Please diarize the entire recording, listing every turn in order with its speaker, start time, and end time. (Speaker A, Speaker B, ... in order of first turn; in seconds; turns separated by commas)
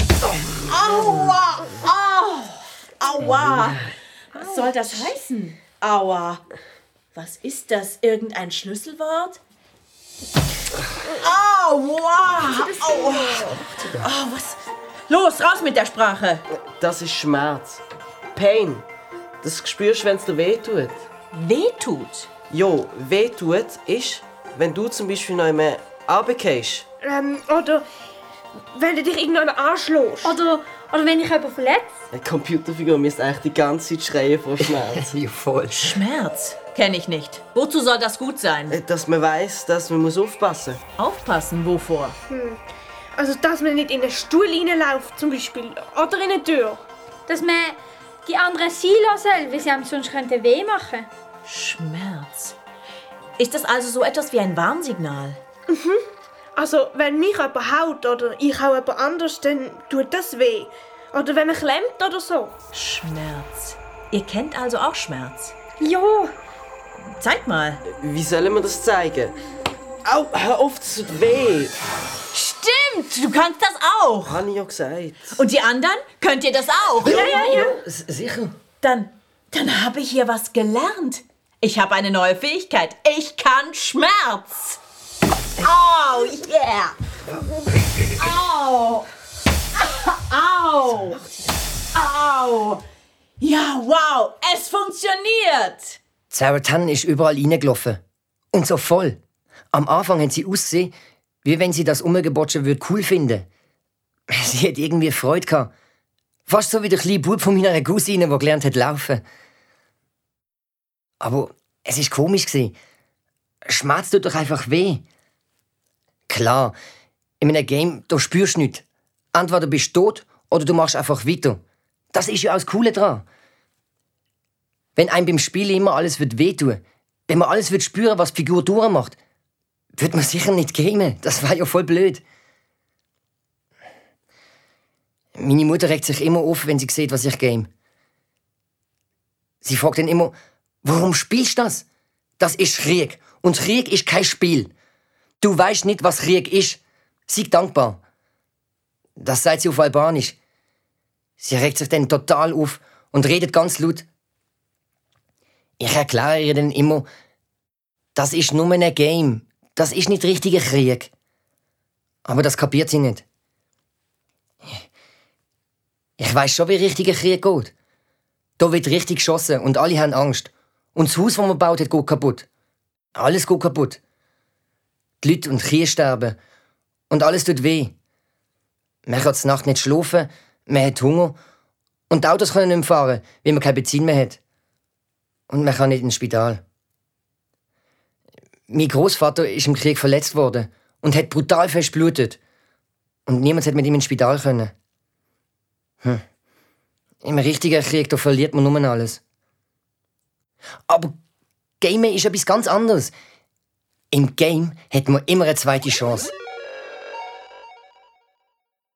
Speaker A: 0.7-6.4, Speaker B: 3.4-3.8, Speaker A: 7.1-9.4, Speaker A: 11.1-16.4, Speaker C: 12.8-13.4, Speaker D: 16.5-17.8, Speaker D: 18.3-18.8, Speaker D: 19.4-21.1, Speaker A: 21.3-22.3, Speaker D: 22.5-26.9, Speaker C: 27.0-27.8, Speaker C: 28.7-30.4, Speaker E: 30.2-32.0, Speaker D: 32.1-35.1, Speaker B: 34.9-36.0, Speaker A: 35.7-38.8, Speaker D: 38.7-40.8, Speaker A: 41.0-42.1, Speaker C: 42.3-42.6, Speaker C: 43.1-46.8, Speaker E: 47.3-51.1, Speaker A: 51.5-52.5, Speaker A: 53.4-55.4, Speaker C: 55.7-56.0, Speaker C: 56.5-62.5, Speaker A: 62.7-65.5, Speaker C: 65.8-66.3, Speaker A: 67.2-67.8, Speaker D: 67.9-69.3, Speaker D: 70.0-71.7, Speaker A: 72.3-74.4, Speaker D: 74.2-75.4, Speaker A: 75.3-77.6, Speaker B: 77.0-78.5, Speaker C: 77.0-77.7, Speaker A: 78.8-84.8, Speaker A: 85.6-87.0, Speaker A: 88.2-89.1, Speaker A: 89.8-91.2, Speaker A: 91.9-92.8, Speaker A: 93.4-96.0, Speaker B: 96.3-98.0, Speaker B: 98.5-99.2, Speaker B: 99.7-100.9, Speaker B: 101.4-103.5, Speaker B: 104.3-105.7, Speaker B: 106.5-109.2, Speaker B: 111.2-112.7, Speaker B: 113.7-115.0, Speaker B: 116.3-116.7, Speaker B: 117.4-121.6, Speaker B: 122.1-123.2, Speaker B: 125.0-129.2, Speaker B: 129.9-132.2, Speaker B: 135.3-137.7, Speaker B: 139.6-141.8, Speaker B: 142.4-144.7, Speaker B: 145.4-148.0, Speaker B: 149.2-150.3, Speaker B: 151.4-154.1, Speaker B: 155.8-157.1, Speaker B: 158.1-161.1, Speaker B: 162.2-163.2, Speaker B: 166.2-167.7, Speaker B: 168.6-172.5, Speaker B: 173.2-174.0, Speaker B: 175.2-176.3, Speaker B: 177.1-177.9, Speaker B: 179.1-181.4, Speaker B: 182.1-184.4, Speaker B: 185.5-186.6, Speaker B: 188.7-192.4, Speaker B: 193.3-194.7, Speaker B: 197.2-199.2, Speaker B: 200.9-201.1, Speaker B: 201.8-203.1, Speaker B: 204.1-206.3